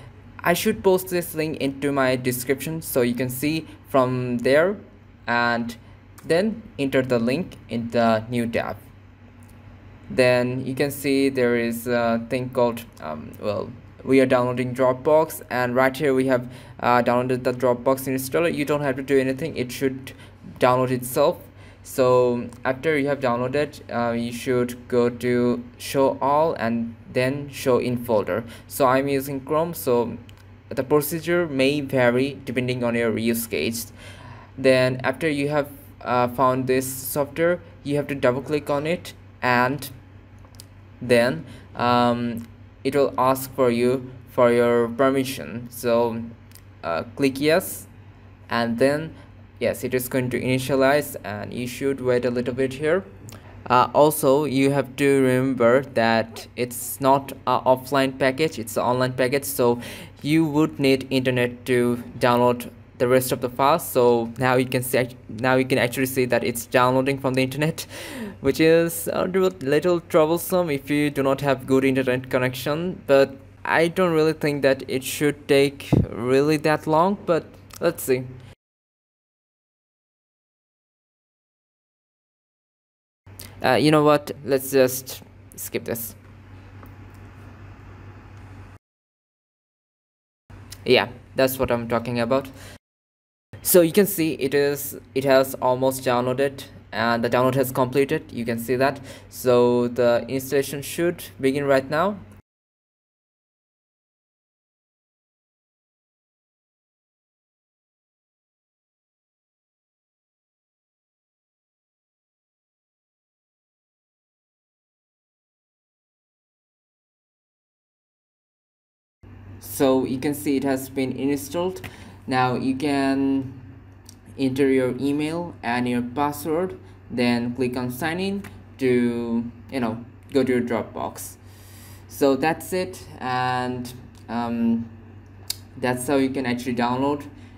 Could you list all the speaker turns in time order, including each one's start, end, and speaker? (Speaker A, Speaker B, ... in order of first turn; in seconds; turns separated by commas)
Speaker A: 0.4-8.8, Speaker A: 10.1-33.9, Speaker A: 34.6-39.9, Speaker A: 41.0-46.3, Speaker A: 46.8-47.9, Speaker A: 48.5-53.1, Speaker A: 53.7-78.3, Speaker A: 83.6-86.2, Speaker A: 90.8-92.5, Speaker A: 93.6-102.2, Speaker A: 119.6-123.6, Speaker A: 124.3-131.4, Speaker A: 132.1-134.9, Speaker A: 135.8-137.3